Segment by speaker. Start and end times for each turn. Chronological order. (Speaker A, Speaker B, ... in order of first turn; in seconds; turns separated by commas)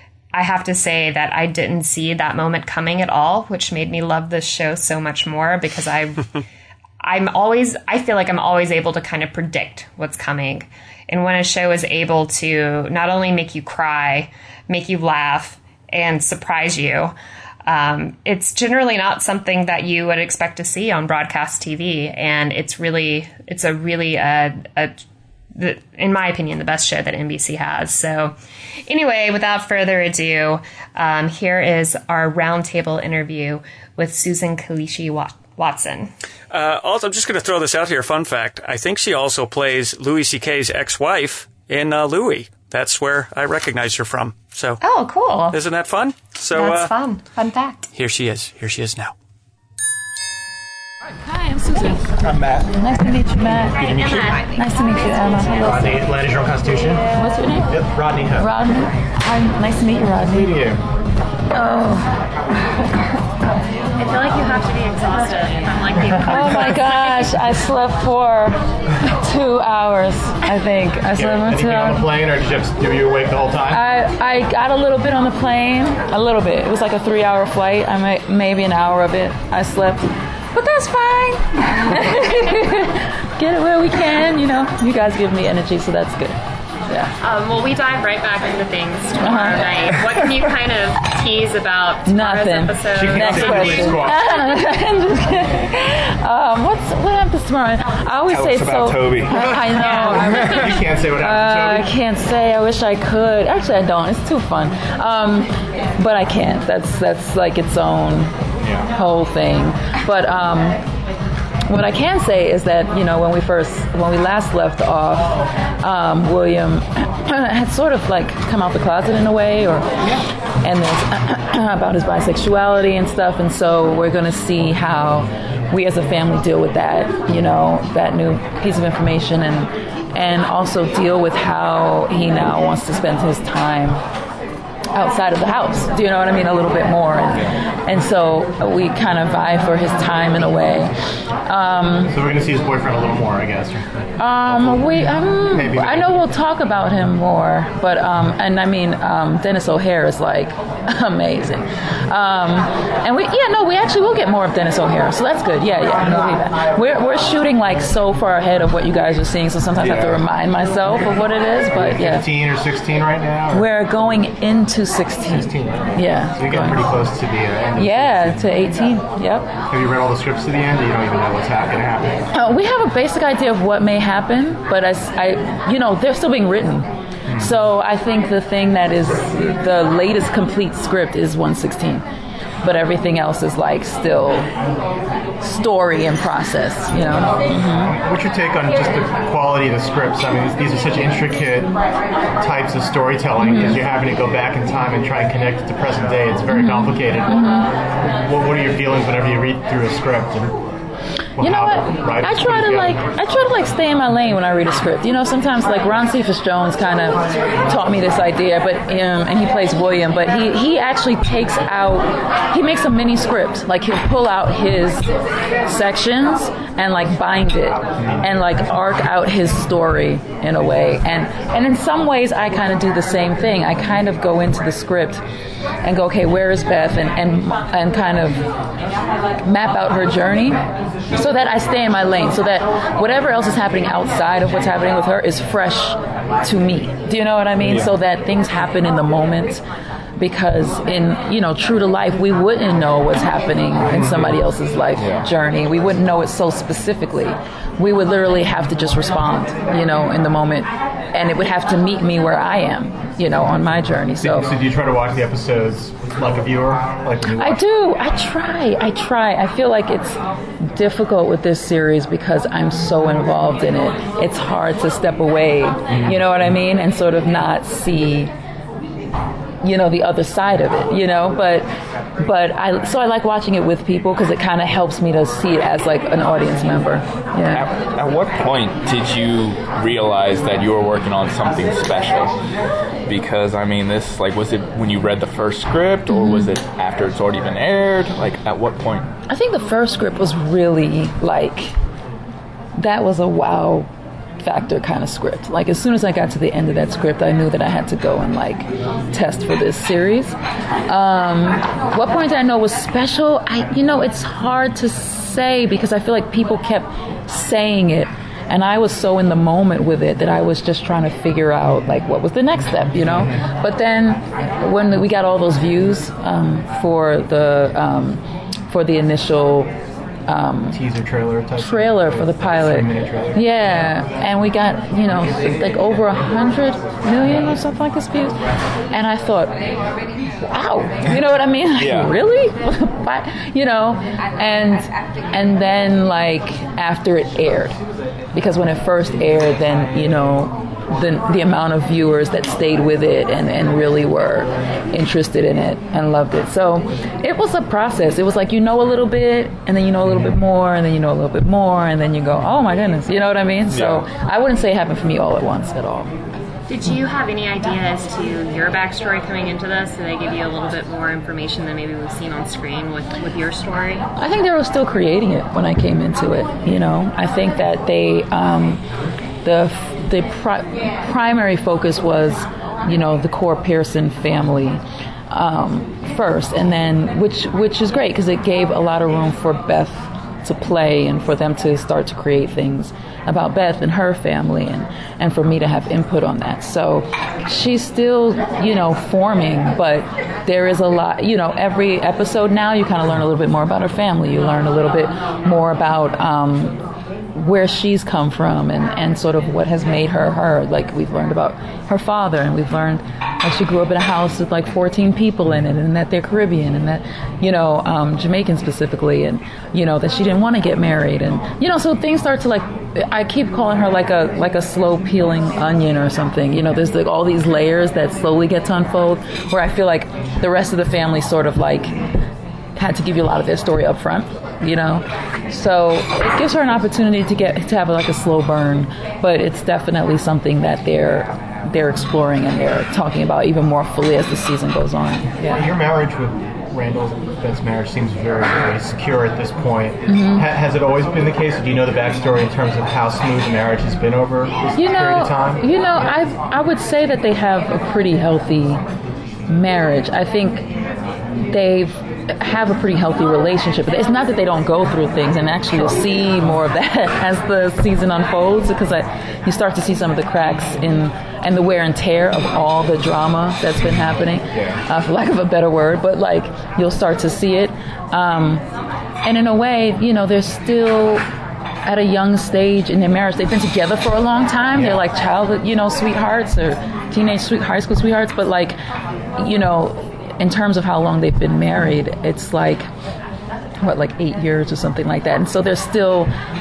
Speaker A: 0.3-6.4, Speaker A: 7.0-17.1, Speaker A: 17.7-25.0, Speaker A: 25.5-36.1, Speaker B: 36.5-44.8, Speaker A: 44.8-45.6, Speaker B: 45.5-46.9, Speaker A: 46.5-47.9, Speaker B: 47.9-49.1, Speaker C: 51.3-52.1, Speaker D: 52.2-52.7, Speaker C: 52.7-56.0, Speaker E: 53.8-54.2, Speaker A: 54.0-54.6, Speaker E: 55.6-57.0, Speaker C: 57.1-60.5, Speaker E: 57.7-58.5, Speaker E: 60.2-60.8, Speaker C: 61.5-62.1, Speaker A: 64.0-67.4, Speaker C: 66.2-72.1, Speaker E: 71.2-73.8, Speaker C: 73.7-86.4, Speaker A: 87.2-94.2, Speaker C: 89.2-90.0, Speaker C: 92.1-108.3, Speaker E: 92.9-94.3, Speaker D: 98.3-99.8, Speaker E: 99.3-101.9, Speaker A: 99.8-100.2, Speaker D: 100.4-100.7, Speaker D: 108.6-108.9, Speaker C: 108.9-110.8, Speaker C: 111.7-134.0, Speaker C: 134.9-140.9, Speaker C: 141.5-142.1, Speaker E: 142.1-143.9, Speaker C: 144.2-162.3, Speaker E: 144.5-144.8, Speaker E: 145.5-146.2, Speaker D: 159.8-160.2, Speaker E: 161.7-163.7, Speaker C: 163.5-166.9, Speaker E: 165.3-168.5, Speaker C: 167.8-169.5, Speaker E: 169.7-172.3, Speaker C: 172.3-182.0, Speaker C: 182.6-184.5, Speaker C: 185.4-187.9, Speaker E: 187.8-191.7, Speaker E: 192.4-200.6, Speaker C: 193.4-193.8, Speaker C: 196.5-197.7, Speaker E: 201.4-203.0, Speaker C: 201.4-215.1, Speaker C: 215.7-225.2, Speaker C: 225.8-228.5, Speaker C: 229.4-230.6, Speaker C: 231.2-239.6, Speaker D: 237.6-237.9, Speaker C: 240.2-254.5, Speaker D: 245.0-245.3, Speaker E: 254.2-257.6, Speaker C: 257.4-260.2, Speaker C: 260.7-268.3, Speaker C: 269.6-271.7, Speaker C: 272.2-277.6, Speaker D: 277.5-282.3, Speaker D: 283.1-289.1, Speaker C: 286.1-286.5, Speaker C: 289.3-291.7, Speaker C: 292.8-293.9, Speaker C: 294.4-300.4, Speaker C: 300.9-319.7, Speaker C: 320.3-320.8, Speaker E: 320.7-323.4, Speaker C: 321.6-328.4, Speaker C: 328.9-329.5, Speaker C: 330.4-337.8, Speaker D: 331.8-332.1, Speaker C: 338.3-356.1, Speaker D: 353.7-354.1, Speaker A: 356.7-364.1, Speaker C: 364.2-368.8, Speaker C: 369.4-396.8, Speaker C: 397.3-421.9, Speaker C: 422.8-435.6, Speaker E: 435.5-445.6, Speaker C: 440.1-440.5, Speaker C: 444.8-448.8, Speaker C: 449.5-450.7, Speaker C: 451.5-468.6, Speaker C: 469.2-471.2, Speaker C: 471.8-478.8, Speaker D: 474.8-475.0, Speaker C: 479.4-482.9, Speaker C: 483.8-486.3